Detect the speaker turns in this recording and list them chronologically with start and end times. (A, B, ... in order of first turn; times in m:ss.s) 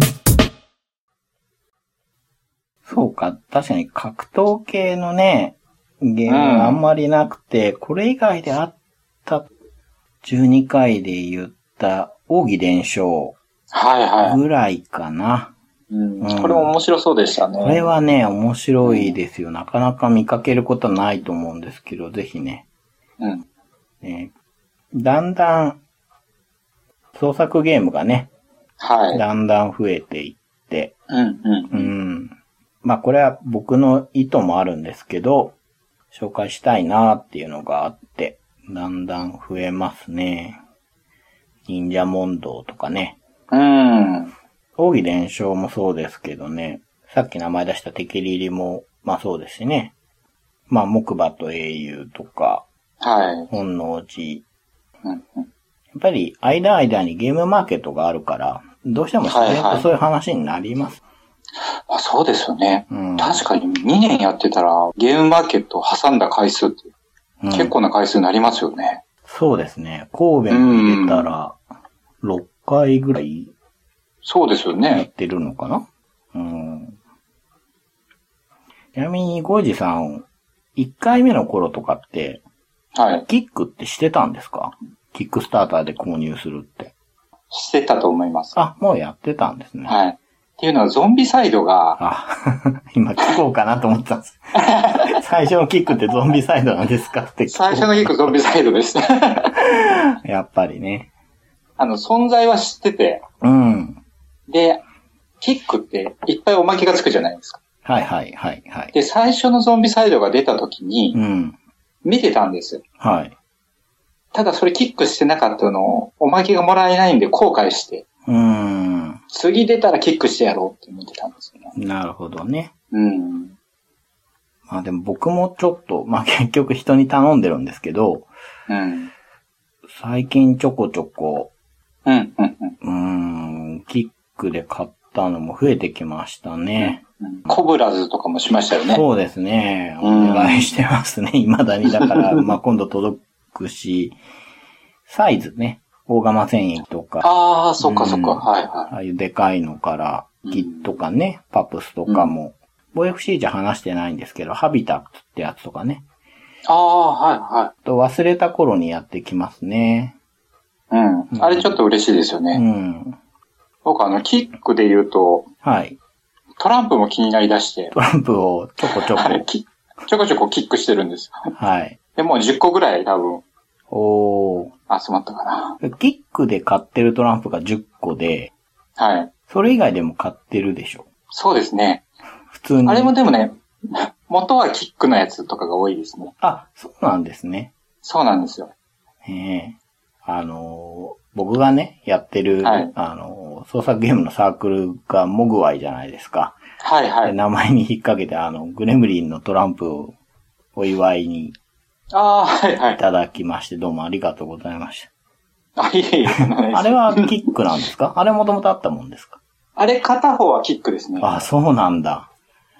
0:02.8-0:09.5 A
0:06.3-0:06.8 B
0:10.2-0:13.4 A
0:13.7-0:14.4 B
0:14.2-0:15.5 A
0:15.9-0:17.8 B
0:16.2-0:16.7 A
0:17.6-0:22.6 A
0:18.8-0:19.1 B
0:24.0-0:24.3 A
0:24.9-0:25.8 A
0:27.1-0:28.3 A
0:28.8-0:29.2 B
0:29.1-0:30.9 A
0:31.1-0:31.9 B
0:31.7-0:35.5 A
0:36.1-0:40.6 A
0:41.7-0:43.2 A
0:43.5-0:44.3 B
0:44.8-0:49.9 A
0:50.7-0:52.6 A
0:53.0-0:53.5 B
0:53.5-0:54.4 A
0:55.0-0:55.4 B
0:55.9-1:01.0 A
0:59.3-0:59.8 B
1:01.9-1:06.9 B
1:02.9-1:03.4 A
1:07.4-1:07.7 A
1:07.5-1:09.0 B
1:09.2-1:11.6 A
1:10.5-1:11.3 B
1:12.2-1:13.5 A
1:14.2-1:15.0 B
1:14.9-1:17.0 A
1:18.9-1:22.4 A
1:22.9-1:23.2 B
1:23.3-1:26.9 A
1:27.5-1:28.6 B
1:28.5-1:30.0 A
1:29.9-1:32.0 B
1:32.0-1:38.4 A
1:34.6-1:35.1 B
1:37.5-1:39.5 B
1:39.6-1:41.1 A
1:41.8-1:43.2 B
1:43.4-1:44.0 A
1:44.5-1:44.8 B
1:45.4-1:47.6 B
1:47.8-1:48.9 A
1:48.9-1:51.2 B
1:51.1-1:51.6 A
1:52.0-1:52.8 B
1:53.0-1:53.3 A
1:54.3-1:58.0 B
1:58.3-1:59.2 A
1:59.3-2:01.7 B
2:01.7-2:02.7 A
2:02.9-2:03.5 B
2:04.7-2:08.3 A
2:08.7-2:09.1 B
2:09.9-2:11.5 A
2:12.0-2:12.8 B
2:12.8-2:17.6 A
2:16.8-2:19.0 B
2:18.9-2:24.2 A
2:20.0-2:20.7 B
2:22.0-2:22.4 B
2:25.1-2:27.3 A
2:27.2-2:28.9 B
2:27.8-2:36.0 A
2:30.4-2:30.9 B
2:36.7-2:37.7 B
2:37.8-2:40.2 A
2:40.9-2:42.6 B
2:41.3-2:41.8 A
2:42.5-2:43.2 A
2:43.8-2:45.5 B
2:45.6-2:46.0 A
2:46.6-2:47.9 B
2:47.9-2:49.4 A
2:49.0-2:51.5 B
2:51.5-2:52.0 A
2:52.2-2:53.4 B
2:53.9-2:54.7 A
2:54.9-2:55.8 B
2:55.8-2:58.5 A
2:59.0-2:59.3 B
2:59.5-3:01.0 A
3:01.3-3:02.0 B
3:02.5-3:03.2 A
3:02.8-3:06.3 B
3:06.4-3:07.7 A
3:08.0-3:08.7 B
3:09.2-3:16.6 A
3:12.6-3:12.9 B
3:16.8-3:17.3 B
3:17.2-3:20.1 A
3:20.7-3:21.5 A
3:22.1-3:23.0 B
3:23.0-3:25.1 A
3:25.8-3:27.3 B
3:26.7-3:29.4 A
3:29.8-3:31.4 B
3:31.2-3:32.3 A